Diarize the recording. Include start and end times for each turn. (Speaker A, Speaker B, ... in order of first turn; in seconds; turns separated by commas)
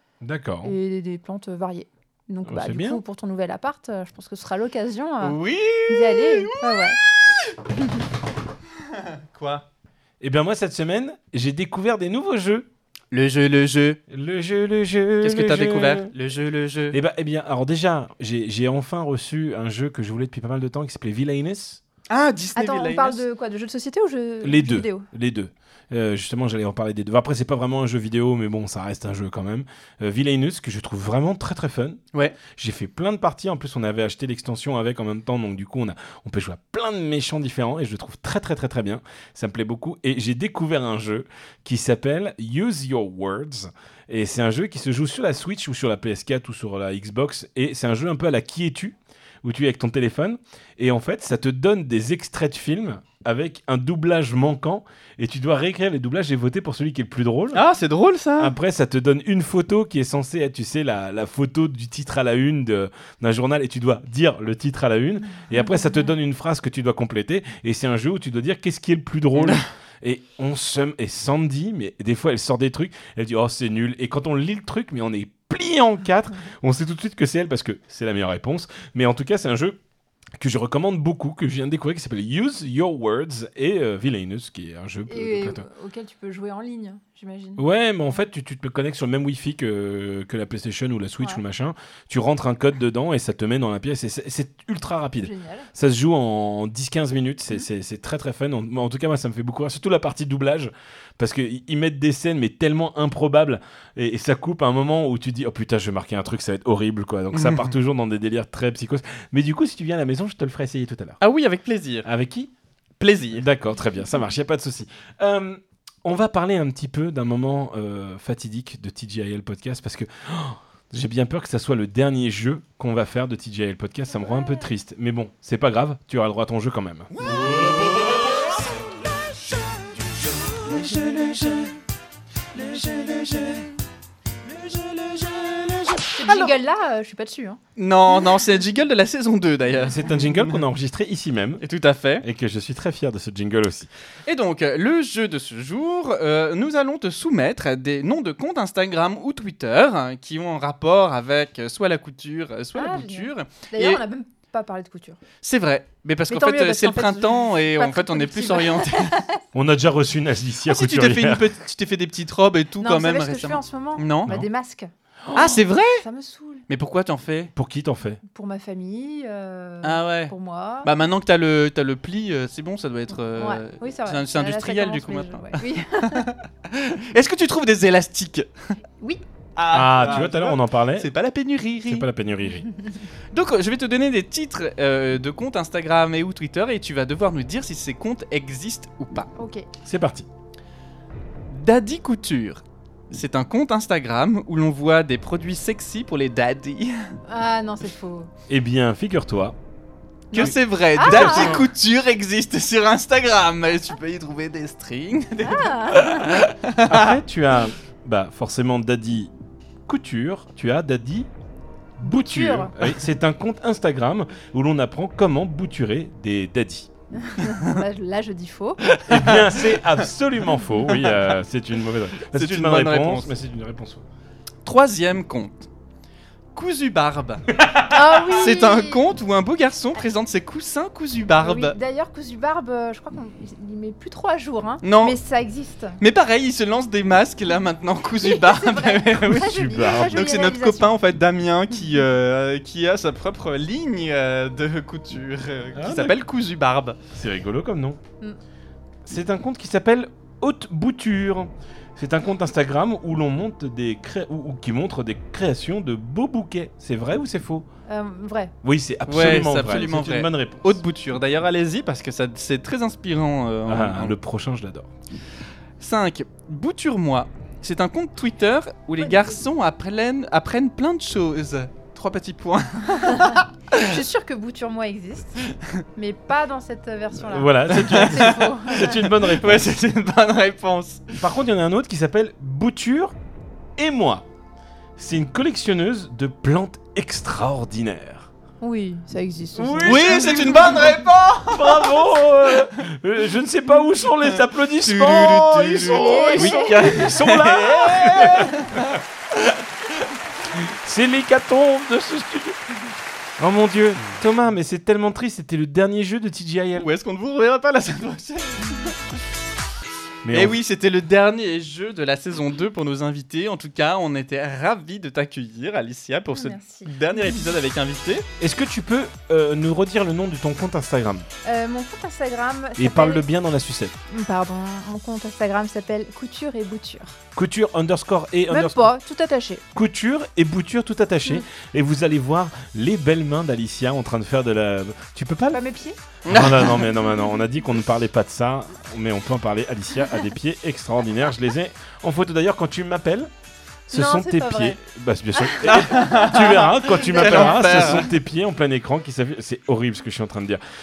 Speaker A: 0.2-0.8, Speaker B: 0.6-5.4, Speaker A: 2.5-3.0, Speaker C: 5.2-6.9, Speaker B: 5.9-7.0, Speaker C: 8.9-9.7, Speaker A: 10.2-12.7, Speaker C: 13.1-14.0, Speaker A: 14.1-16.1, Speaker C: 15.2-17.0, Speaker A: 16.9-21.8, Speaker C: 22.1-23.2, Speaker B: 22.6-25.1, Speaker A: 24.4-57.6, Speaker C: 57.5-58.5, Speaker A: 58.4-79.8, Speaker C: 69.4-69.7, Speaker A: 80.4-85.7, Speaker B: 85.1-87.7, Speaker A: 87.6-111.2, Speaker B: 95.2-95.7, Speaker C: 107.3-107.7, Speaker C: 111.2-112.1, Speaker A: 112.0-112.5, Speaker C: 113.0-113.5, Speaker A: 113.3-127.1, Speaker C: 127.1-131.8, Speaker A: 130.7-131.6, Speaker C: 132.5-133.8, Speaker C: 134.4-136.6, Speaker B: 136.1-137.6, Speaker C: 137.8-140.6, Speaker A: 139.9-141.6, Speaker C: 141.6-142.3, Speaker A: 142.2-143.9, Speaker C: 144.3-154.0, Speaker B: 152.8-155.2, Speaker C: 155.4-159.2, Speaker B: 156.3-159.4, Speaker A: 159.5-161.5, Speaker C: 160.7-164.3, Speaker B: 162.8-164.9, Speaker C: 165.3-166.1, Speaker B: 166.0-166.7, Speaker C: 166.7-167.5, Speaker A: 167.6-168.2, Speaker B: 168.3-170.9, Speaker C: 169.8-178.8, Speaker B: 173.3-176.3, Speaker C: 179.6-182.1, Speaker A: 179.7-181.1, Speaker A: 181.8-182.7, Speaker C: 183.3-189.3, Speaker B: 189.4-189.7, Speaker A: 189.8-190.3, Speaker C: 191.5-197.2, Speaker B: 197.3-198.3, Speaker A: 198.5-199.6, Speaker A: 200.3-201.7, Speaker C: 200.3-207.2, Speaker B: 200.4-201.6, Speaker B: 205.4-206.3, Speaker A: 206.9-209.3, Speaker A: 209.9-211.3, Speaker A: 212.0-216.9, Speaker B: 212.0-212.7, Speaker B: 217.2-218.9, Speaker C: 218.9-219.9, Speaker A: 219.1-224.0, Speaker C: 220.9-221.3, Speaker C: 222.3-223.3, Speaker C: 224.7-225.7, Speaker C: 226.6-227.5, Speaker A: 227.6-228.3, Speaker B: 227.9-229.0, Speaker C: 228.2-231.8, Speaker B: 231.4-236.0, Speaker C: 234.8-235.2, Speaker C: 236.0-247.0, Speaker B: 238.2-240.9, Speaker A: 239.3-240.2, Speaker A: 245.8-246.2, Speaker A: 247.1-248.0, Speaker A: 249.1-257.7, Speaker B: 257.9-258.5, Speaker A: 258.6-260.8, Speaker C: 259.1-264.1, Speaker A: 263.7-264.9, Speaker C: 265.8-274.0, Speaker B: 273.1-279.1, Speaker A: 277.2-279.7, Speaker C: 277.7-281.2, Speaker A: 281.2-283.1, Speaker A: 283.8-284.3, Speaker A: 285.0-288.3, Speaker B: 288.6-290.9, Speaker A: 289.6-299.0, Speaker C: 289.8-292.8, Speaker C: 294.3-299.0, Speaker B: 295.8-296.9, Speaker A: 300.5-302.6, Speaker A: 303.4-306.9, Speaker C: 306.8-309.0, Speaker A: 310.2-310.6, Speaker C: 310.3-318.3, Speaker B: 316.3-316.9, Speaker A: 318.4-321.3, Speaker B: 321.4-323.3, Speaker A: 322.8-323.9, Speaker B: 324.1-327.2, Speaker A: 327.4-328.8, Speaker B: 328.5-329.6, Speaker A: 329.7-335.6, Speaker B: 335.5-336.0, Speaker C: 336.3-336.9, Speaker A: 336.3-343.3, Speaker A: 343.9-350.6, Speaker B: 343.9-344.8, Speaker B: 345.4-346.3, Speaker C: 345.6-348.1